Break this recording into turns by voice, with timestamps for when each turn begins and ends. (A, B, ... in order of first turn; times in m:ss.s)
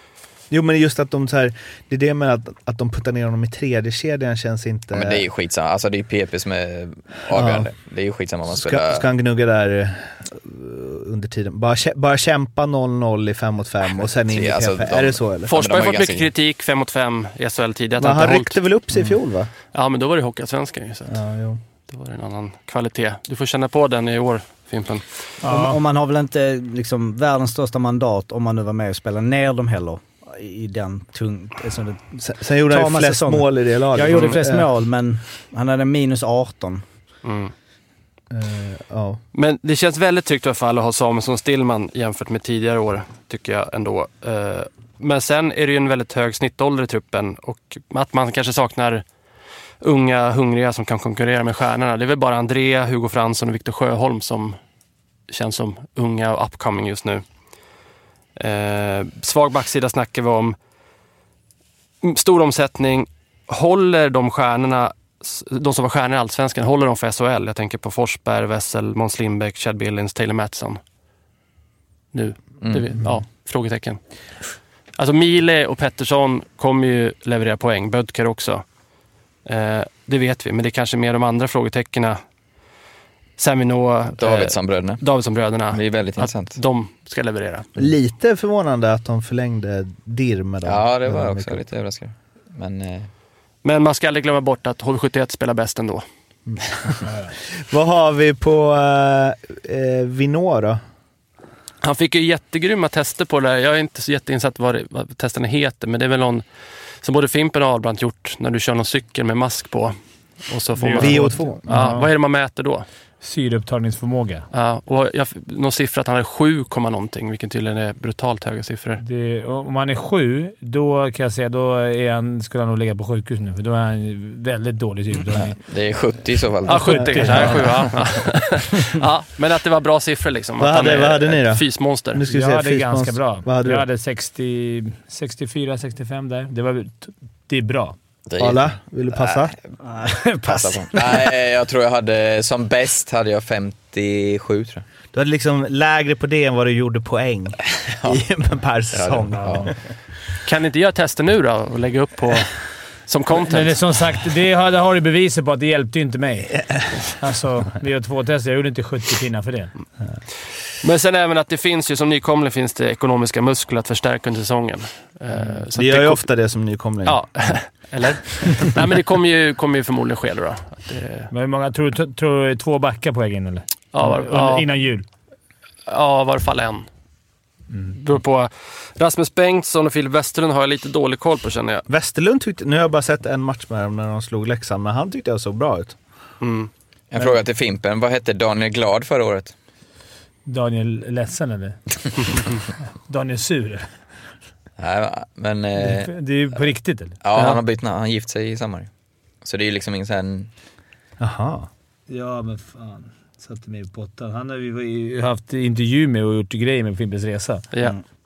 0:00.5-0:05.2 A
0:04.9-0:09.1 B
0:07.3-0:07.7 A
0:08.5-0:15.6 A
0:14.2-0:16.3 B
0:15.5-0:18.6 C
0:18.0-0:19.5 A
0:19.7-0:21.1 C
0:21.1-0:21.6 A
0:21.9-0:25.0 C
0:25.4-0:25.8 D
0:25.4-0:36.8 E
0:32.3-0:34.7 A
0:34.1-0:34.4 C
0:37.2-0:37.5 C
0:38.3-0:39.2 A
0:39.3-0:49.0 C
0:49.8-0:54.6 C
0:55.3-0:57.2 C
0:58.4-1:00.6 C
1:02.0-1:10.8 C
1:12.1-1:14.0 C
1:15.0-1:18.6 C
1:19.5-1:22.2 C
1:23.4-1:27.7 C
1:24.2-1:25.0 B
1:25.7-1:26.6 B
1:27.8-1:31.7 A
1:30.6-1:33.1 B
1:33.6-1:36.0 C
1:36.5-1:37.0 A
1:37.0-1:37.3 D
1:37.7-1:40.8 A
1:41.8-1:46.4 C
1:47.0-1:49.9 C
1:50.5-1:52.9 C
1:50.8-1:52.1 D
1:51.0-1:51.9 A
1:53.2-1:54.5 D
1:54.5-1:59.0 C
1:59.0-2:05.6 D
2:05.3-2:07.6 B
2:06.6-2:07.6 D
2:06.7-2:12.2 C
2:06.9-2:07.6 A
2:10.6-2:13.9 A
2:12.3-2:18.0 D
2:18.3-2:19.6 B
2:18.4-2:19.6 A
2:19.8-2:21.3 E
2:20.5-2:24.8 B
2:25.1-2:29.8 A
2:28.9-2:29.7 B
2:29.4-2:29.7 D
2:30.4-2:33.8 C
2:33.4-2:39.7 D
2:40.8-2:46.3 C
2:45.8-2:47.2 A
2:47.0-2:51.3 C
2:51.3-2:55.1 D
2:53.9-2:54.7 C
2:55.9-2:56.9 C
2:57.9-3:01.8 C
3:01.9-3:06.0 A
3:06.4-3:06.7 C
3:07.1-3:09.5 B
3:10.5-3:13.9 D
3:14.8-3:16.1 B
3:15.8-3:17.6 D
3:17.2-3:18.9 B
3:19.4-3:20.5 B
3:21.2-3:21.7 A
3:22.1-3:27.6 D